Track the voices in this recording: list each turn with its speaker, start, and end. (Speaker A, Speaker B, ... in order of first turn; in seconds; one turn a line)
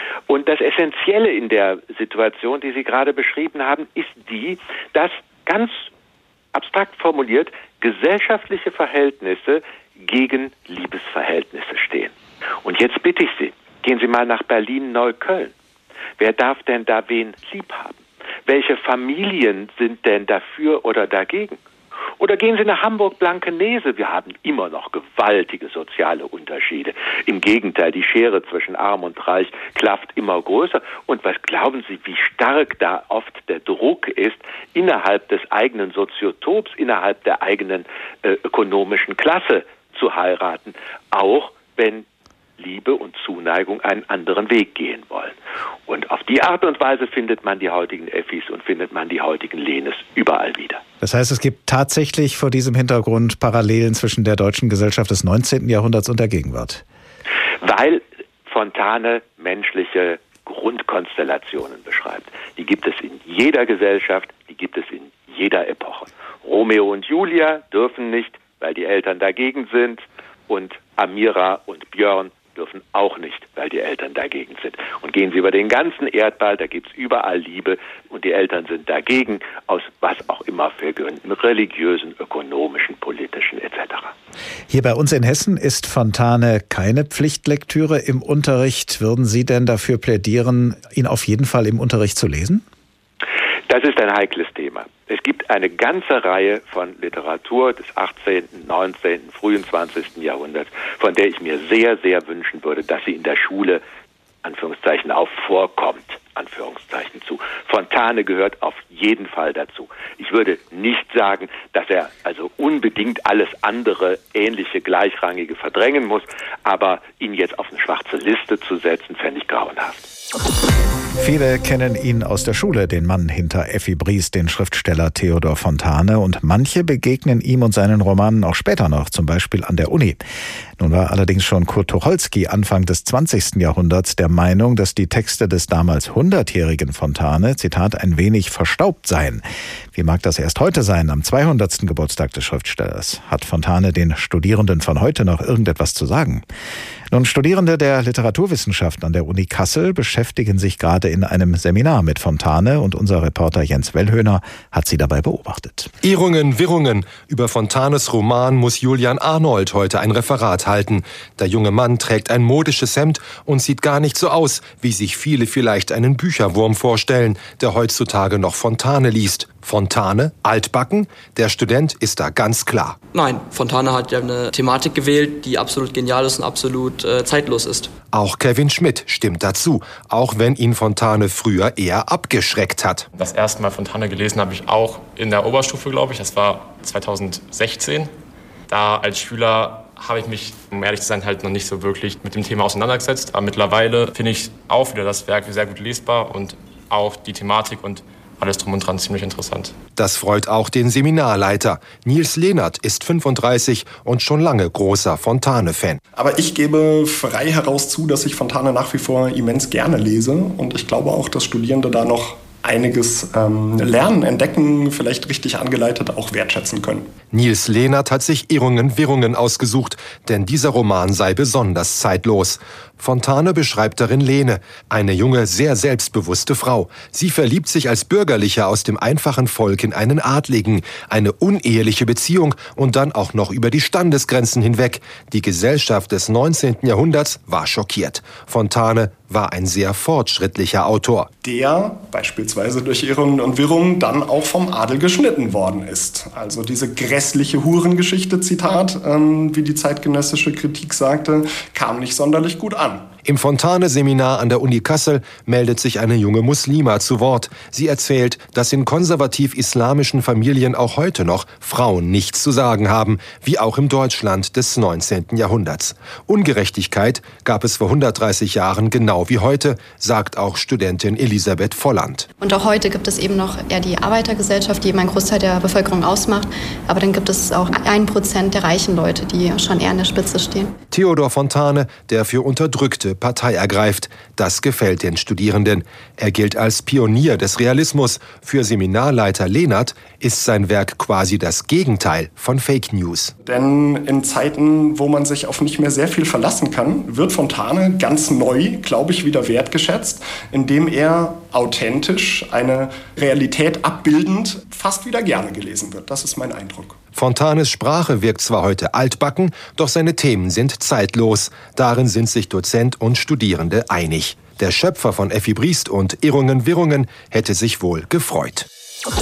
Speaker A: 0.3-5.9
Speaker A: 6.5-12.1
Speaker A: 12.6-15.5
Speaker A: 16.2-21.6
Speaker A: 22.2-42.0
Speaker A: 42.6-45.4
Speaker A: 45.9-50.8
Speaker B: 51.0-56.8
Speaker A: 57.6-84.1
Speaker B: 84.7-92.6
Speaker A: 93.7-103.8
Speaker A: 104.4-120.1
Speaker B: 121.2-130.2
Speaker B: 130.8-139.4
Speaker B: 139.9-146.4
Speaker B: 147.1-155.9
Speaker C: 156.0-173.0
Speaker D: 173.1-177.9
Speaker C: 178.1-183.1
Speaker E: 183.1-188.1
Speaker E: 188.7-199.7
Speaker C: 200.0-206.0
Speaker F: 206.1-217.1
Speaker C: 217.3-241.3
Speaker F: 241.4-253.1
Speaker C: 253.2-272.3
Speaker G: 272.4-280.8
Speaker C: 280.9-293.3
Speaker F: 293.4-307.0
Speaker C: 307.1-318.7